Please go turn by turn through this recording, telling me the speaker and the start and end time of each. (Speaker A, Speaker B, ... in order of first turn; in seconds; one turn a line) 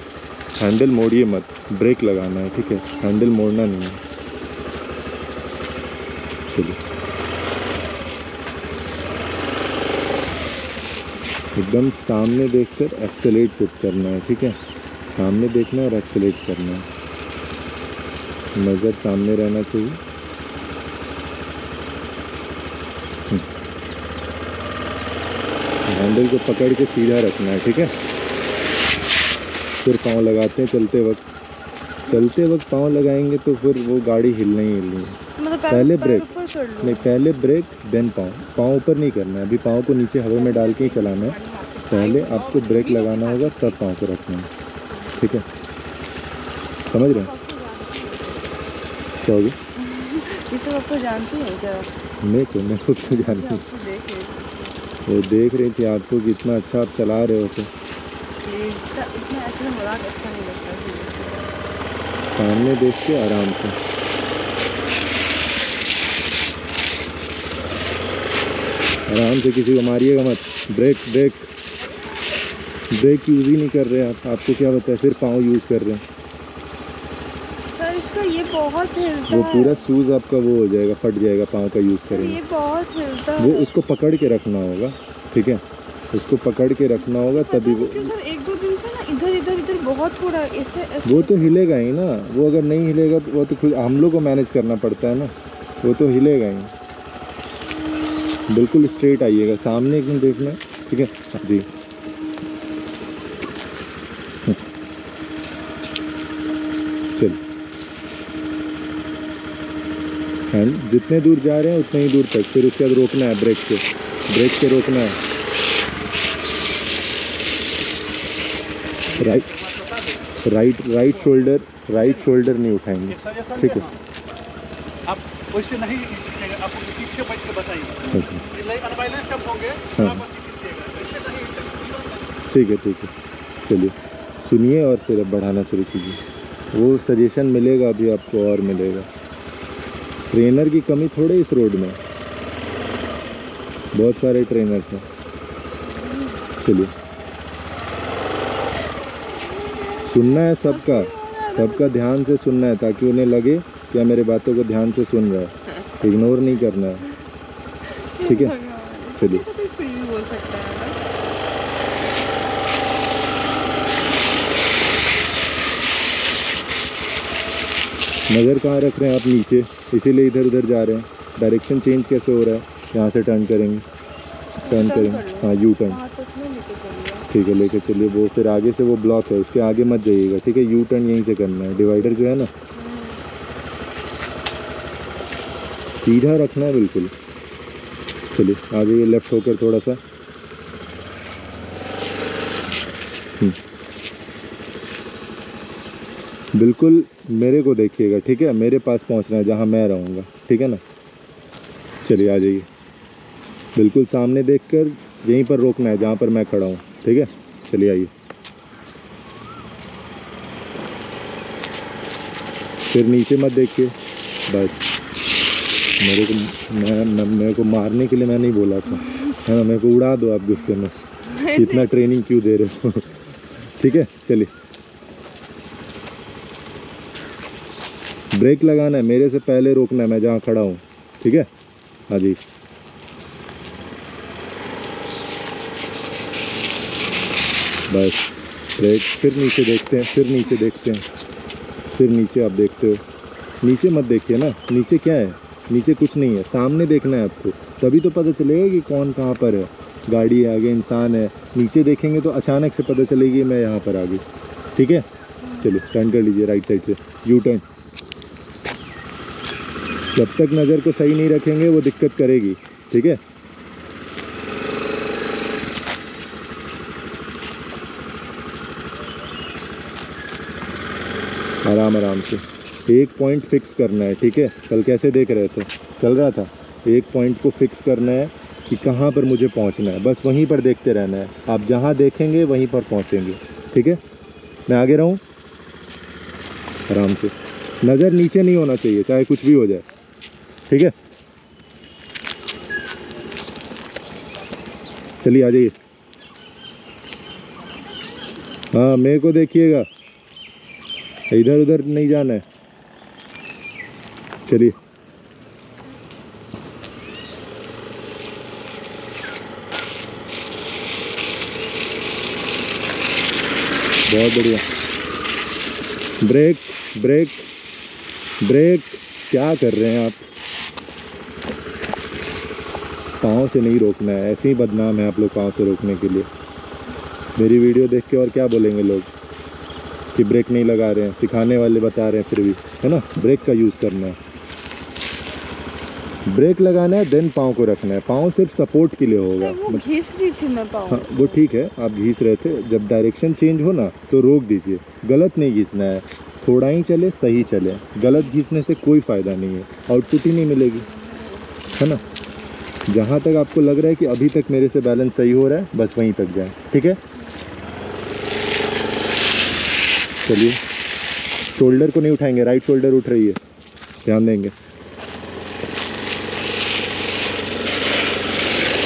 Speaker A: 0.6-4.0
Speaker A: 6.5-6.8
Speaker A: 11.6-16.9
Speaker A: 18.6-20.0
Speaker A: 25.9-27.9
Speaker A: 29.8-31.2
Speaker A: 32.1-35.2
Speaker B: 35.4-37.1
Speaker A: 35.7-36.3
Speaker A: 36.8-41.4
Speaker B: 40.4-43.8
Speaker A: 41.9-44.5
Speaker A: 45.2-45.5
Speaker A: 46.9-47.3
Speaker B: 46.9-48.7
Speaker A: 49.2-49.6
Speaker B: 49.8-51.9
Speaker A: 52.2-53.6
Speaker B: 53.0-55.0
Speaker A: 55.1-57.7
Speaker B: 58.4-61.6
Speaker A: 62.3-63.8
Speaker A: 69.1-71.5
Speaker A: 72.9-76.0
Speaker B: 77.7-79.9
Speaker A: 79.3-82.4
Speaker B: 82.1-83.7
Speaker A: 83.4-88.1
Speaker B: 87.0-91.6
Speaker A: 91.0-96.7
Speaker A: 98.5-101.7
Speaker A: 107.1-107.4
Speaker A: 110.5-115.2
Speaker A: 119.1-119.5
Speaker C: 119.5-120.2
Speaker A: 120.4-123.9
Speaker C: 123.2-123.8
Speaker C: 125.1-132.3
Speaker A: 128.1-128.5
Speaker A: 129.9-130.3
Speaker A: 132.5-133.1
Speaker A: 133.6-136.2
Speaker A: 136.7-139.1
Speaker A: 140.3-142.0
Speaker A: 143.9-145.1
Speaker B: 145.9-146.5
Speaker A: 146.6-146.9
Speaker B: 149.5-152.0
Speaker A: 150.1-157.1
Speaker B: 157.9-161.0
Speaker A: 158.2-158.5
Speaker A: 159.2-159.4
Speaker A: 168.3-173.8
Speaker B: 174.6-177.3
Speaker A: 174.7-176.0
Speaker A: 177.3-182.5
Speaker B: 182.8-183.2
Speaker A: 185.9-187.1
Speaker A: 188.3-190.0
Speaker A: 196.5-200.8
Speaker A: 202.0-202.7
Speaker A: 203.8-208.1
Speaker A: 212.9-213.9
Speaker A: 214.5-214.9
Speaker A: 216.0-224.5
Speaker B: 221.2-221.9
Speaker A: 228.3-231.5
Speaker A: 232.1-232.4
Speaker A: 237.9-241.1
Speaker A: 241.9-243.0
Speaker A: 243.6-254.2
Speaker A: 254.8-255.1
Speaker B: 255.4-255.7
Speaker A: 255.6-257.6
Speaker A: 260.1-263.2
Speaker A: 271.6-284.0
Speaker A: 284.7-285.2
Speaker A: 286.9-289.9
Speaker A: 290.7-290.9
Speaker A: 295.2-295.7
Speaker A: 298.7-299.9
Speaker A: 301.3-302.4
Speaker A: 304.5-304.8
Speaker A: 314.1-314.6
Speaker A: 316.2-317.5
Speaker A: 318.4-320.2
Speaker A: 323.2-326.3
Speaker A: 327.4-329.1
Speaker A: 330.1-334.2
Speaker A: 336.3-339.8
Speaker B: 339.4-341.4
Speaker A: 340.9-350.9
Speaker B: 351.1-351.8
Speaker A: 351.8-352.0
Speaker A: 352.9-357.0
Speaker A: 360.2-360.6
Speaker A: 361.5-363.4
Speaker A: 364.1-364.5